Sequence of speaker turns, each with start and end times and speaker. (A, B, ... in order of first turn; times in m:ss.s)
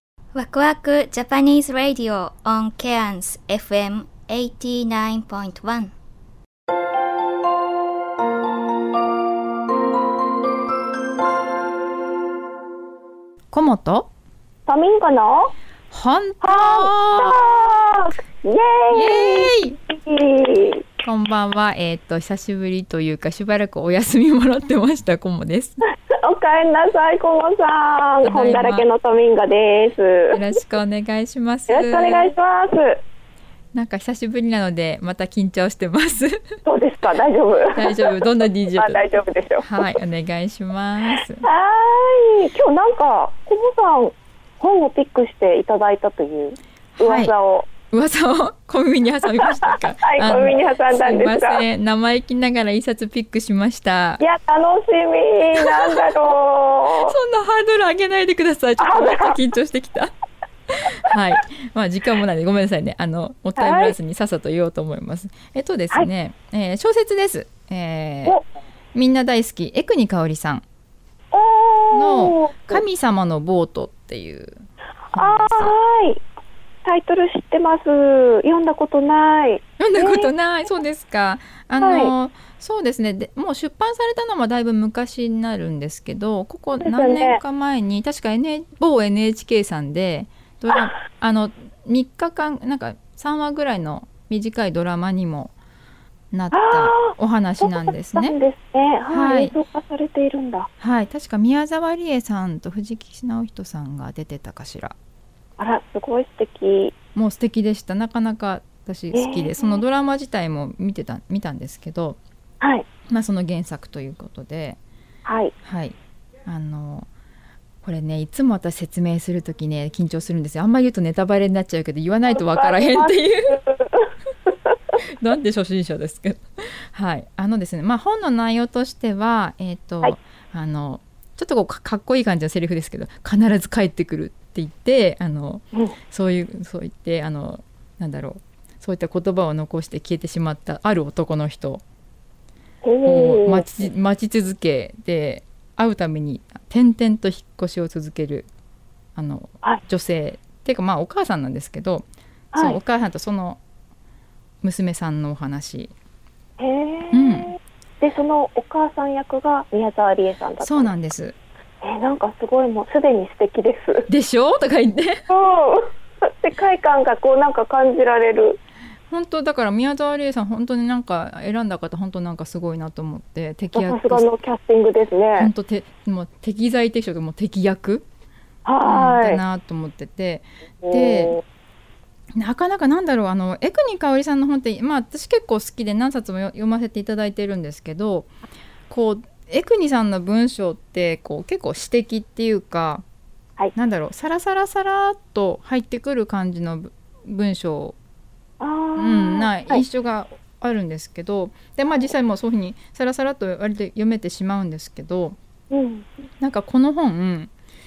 0:00.3-0:05.9 A
0:13.5-0:14.1 B
0:14.7-0:15.5 C
0:15.9-0:17.4 B
0:16.4-0:20.8 C
0:18.9-0:19.8 B
0:21.0-0:25.8 B
0:26.1-0:30.4 C
0:28.2-0:28.8 B
0:30.3-0:32.3 B
0:31.7-0:33.0 C
0:33.7-0:36.4 B
0:36.6-0:38.1 C
0:37.7-0:39.0 B
0:38.7-0:39.6 C
0:39.6-0:41.4 B
0:41.4-0:47.7 C
0:47.0-0:47.3 B
0:47.9-0:54.2 B
0:50.0-0:51.6 C
0:54.2-0:57.1 C
0:57.0-1:00.1 B
0:58.8-0:59.3 C
1:00.8-1:08.4 B
1:03.6-1:03.9 C
1:08.9-1:10.6 B
1:11.3-1:12.8 C
1:11.9-1:14.6 B
1:15.1-1:16.2 C
1:15.1-1:15.7 B
1:16.8-1:20.3 C
1:19.8-1:35.5 B
1:21.8-1:22.1 C
1:26.8-1:27.4 C
1:36.3-1:38.4 B
1:36.5-1:40.7 C
1:39.1-1:39.5 B
1:40.8-1:44.9 B
1:45.6-1:46.9 C
1:47.1-1:52.2 B
1:49.1-1:49.8 C
1:52.6-1:52.8 C
1:53.1-1:54.8 B
1:55.2-1:55.5 C
1:55.6-1:57.1 B
1:57.8-2:03.6 B
2:02.3-2:04.5 C
2:05.2-2:21.8 B
2:22.8-2:23.6 C
2:23.0-2:28.5 B
2:29.2-2:32.0 B
2:32.5-2:32.8 C
2:32.6-2:33.6 B
2:34.6-2:35.9 B
2:36.6-2:40.9 C
2:37.1-2:37.5 B
2:40.6-2:41.3 B
2:41.8-2:44.1 C
2:44.1-2:45.2 B
2:45.3-2:48.6 C
2:49.1-2:54.3 B
2:53.7-2:55.5 C
2:55.4-2:58.0 B
2:58.6-2:59.4 C
2:58.8-3:01.4 B
3:00.8-3:01.4 C
3:02.3-3:08.3 B
3:08.9-3:13.0 B
3:13.7-3:17.9 B
3:18.6-3:19.8 C
3:19.0-3:25.4 B
3:25.7-3:26.1 C
3:26.4-3:27.5 B